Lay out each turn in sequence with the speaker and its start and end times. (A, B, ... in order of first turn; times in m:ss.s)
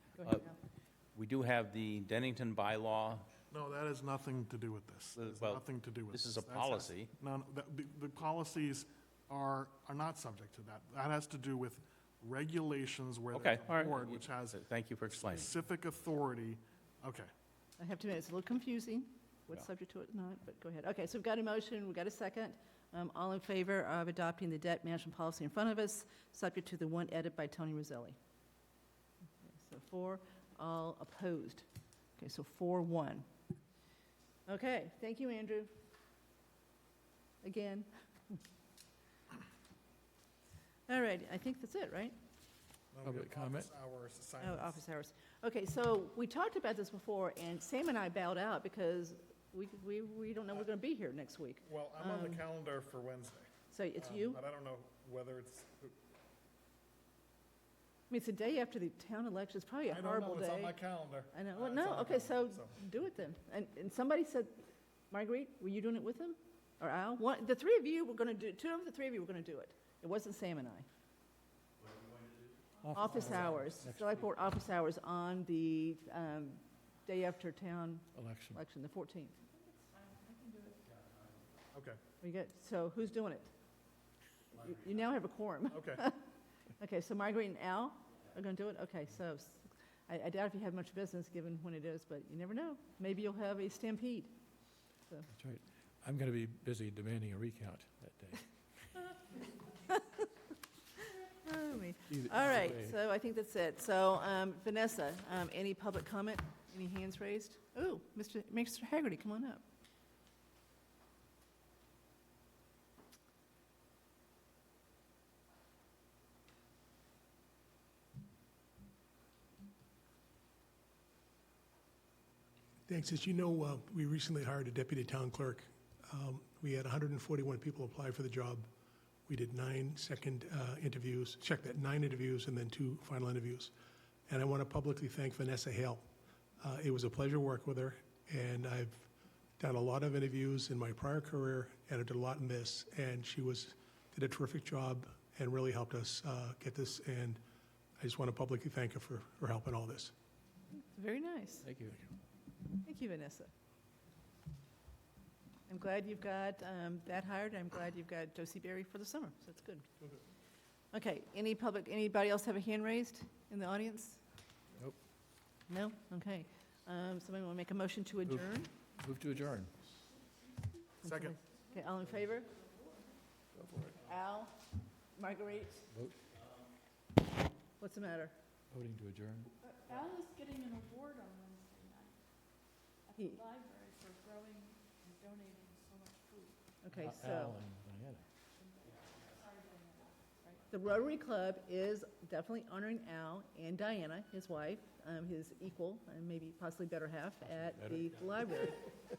0:00.2-0:00.5 A
0:00.2-0:00.5 B
0:01.1-0:03.3 A
0:03.5-0:14.7 C
0:05.1-0:07.1 A
0:13.3-0:15.5 A
0:15.3-0:17.3 C
0:17.8-0:28.2 B
0:29.5-0:31.7 B
0:32.2-0:33.3 B
0:34.5-0:35.7 B
0:37.4-0:38.4 B
0:40.9-0:42.2 B
0:42.9-0:44.8 C
0:43.0-0:43.7 D
0:44.4-0:52.4 B
0:51.6-0:56.0 C
0:53.7-0:54.4 B
0:58.1-1:00.8 B
0:59.9-1:02.7 C
1:01.3-1:04.5 B
1:05.1-1:10.8 B
1:11.8-1:12.5 A
1:12.8-1:14.3 D
1:12.9-1:19.4 B
1:18.1-1:18.6 D
1:19.6-1:20.8 E
1:21.7-1:22.0 C
1:22.2-1:23.5 B
1:24.6-1:26.2 B
1:25.7-1:26.0 C
1:26.8-1:34.3 B
1:35.3-1:38.5 D
1:39.9-1:40.3 B
1:41.4-1:49.6 B
1:42.1-1:42.9 D
2:02.9-2:08.7 F
2:09.3-2:13.7 F
2:14.3-2:16.1 F
2:16.6-2:27.4 F
2:28.0-2:30.1 F
2:30.8-2:31.6 B
2:31.6-2:32.0 A
2:32.8-2:33.5 B
2:35.7-2:39.9 B
2:40.9-2:44.2 B
2:45.7-2:48.7 B
2:49.0-2:49.7 D
2:51.0-2:52.5 B
2:51.0-2:51.4 C
2:51.5-2:53.2 E
2:53.5-2:54.0 D
2:54.0-2:54.6 B
2:55.1-2:55.9 B
2:55.9-2:56.2 D
2:57.8-2:58.3 B
2:58.7-2:59.5 D
2:59.6-3:02.2 E
3:03.0-3:06.6 E
3:06.8-3:07.6 B
3:06.9-3:08.2 D
3:08.6-3:10.6 E
3:10.7-3:18.8 B